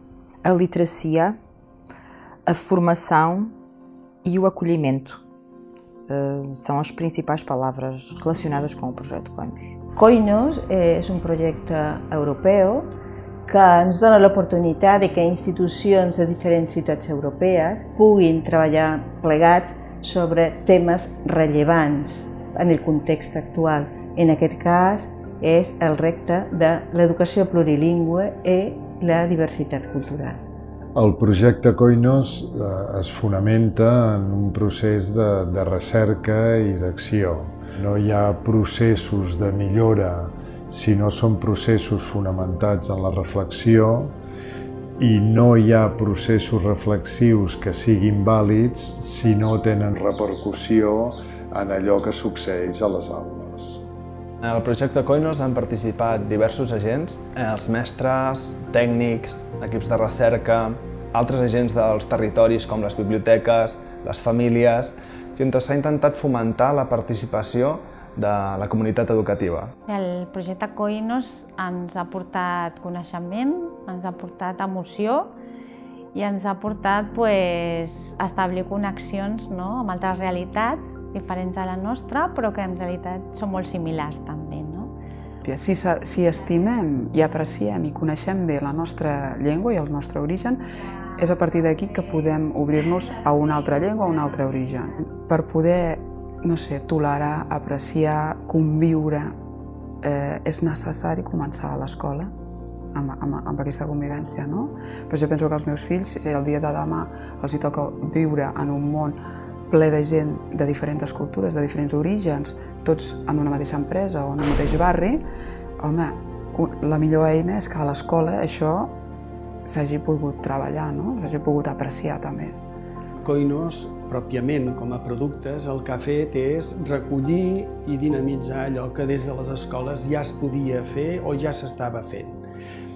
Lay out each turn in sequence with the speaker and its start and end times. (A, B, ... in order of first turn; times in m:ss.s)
0:00.5-0:01.3 A
0:02.5-0:03.3 A
0:04.3-0:05.2 A
0:06.1-0:07.7 A
0:08.2-0:09.6 A
0:10.0-0:12.9 B
0:13.5-0:30.4 B
0:31.0-0:44.2 C
0:45.0-0:53.8 C
0:54.4-1:09.7 D
1:09.9-1:15.3 E
1:16.1-1:24.9 E
1:25.4-1:30.6 F
1:31.2-1:39.3 F
1:40.0-1:42.3 F
1:42.9-1:49.2 F
1:49.7-1:55.2 F
1:55.8-1:58.9 F
1:59.7-2:02.6 F
2:03.2-2:12.4 G